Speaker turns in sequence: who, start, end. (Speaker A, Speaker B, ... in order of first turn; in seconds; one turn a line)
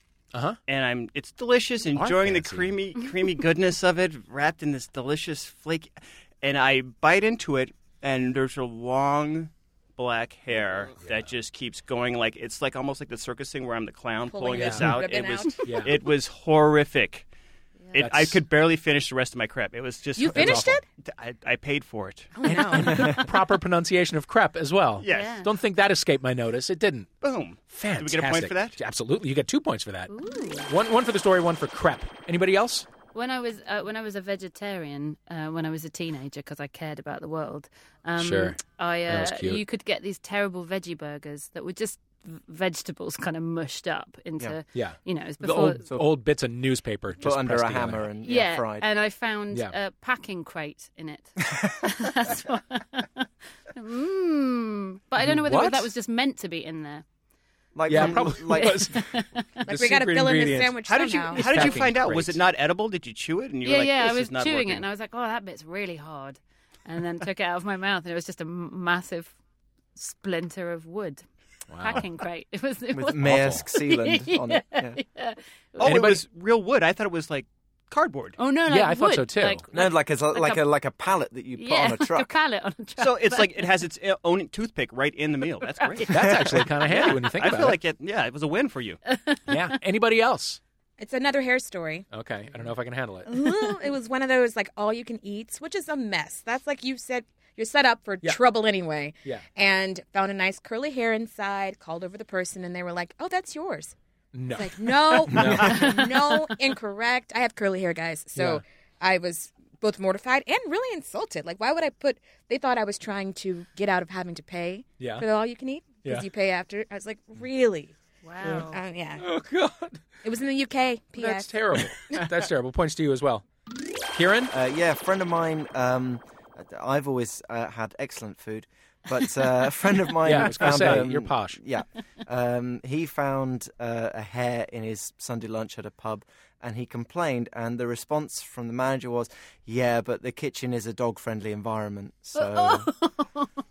Speaker A: 0.3-0.6
Speaker B: 0.7-17.3
Speaker A: 1.9-2.8
Speaker A: 11.0-11.3
Speaker C: 14.3-15.8
Speaker A: 14.5-15.0
Speaker A: 15.6-15.9
Speaker B: 17.9-22.3
Speaker A: 17.9-18.4
Speaker C: 20.1-20.8
Speaker A: 20.3-20.8
Speaker C: 22.4-23.3
Speaker A: 22.4-27.1
Speaker B: 25.0-25.4
Speaker D: 25.1-25.5
Speaker B: 27.2-28.8
Speaker A: 27.7-30.1
Speaker D: 30.1-30.7
Speaker A: 30.7-32.9
Speaker D: 33.1-45.9
Speaker A: 38.2-39.6
Speaker A: 44.7-48.1
Speaker E: 47.2-48.9
Speaker D: 48.2-57.0
Speaker A: 55.2-55.9
Speaker E: 57.7-58.9
Speaker A: 57.9-60.8
Speaker D: 58.0-59.4
Speaker C: 59.6-61.8
Speaker B: 60.9-64.8
Speaker A: 61.3-62.4
Speaker D: 63.6-69.3
Speaker D: 70.0-71.2
Speaker A: 71.7-72.0
Speaker D: 71.8-75.4
Speaker E: 72.9-75.0
Speaker A: 73.2-73.6
Speaker B: 75.8-78.4
Speaker A: 75.8-76.2
Speaker D: 78.4-80.6
Speaker A: 78.7-79.6
Speaker E: 79.7-82.3
Speaker D: 81.6-83.7
Speaker B: 83.0-89.0
Speaker A: 86.1-87.8
Speaker D: 89.1-89.6
Speaker A: 89.5-90.6
Speaker C: 91.0-92.1
Speaker A: 92.1-93.4
Speaker C: 93.3-103.9
Speaker A: 104.3-106.0
Speaker C: 104.5-119.2
Speaker A: 108.3-108.6
Speaker A: 115.0-115.2
Speaker D: 118.2-118.8
Speaker A: 118.4-120.0
Speaker C: 120.2-122.3
Speaker A: 121.2-123.5
Speaker A: 124.1-124.5
Speaker E: 124.5-142.9
Speaker A: 130.2-131.6
Speaker D: 142.3-143.5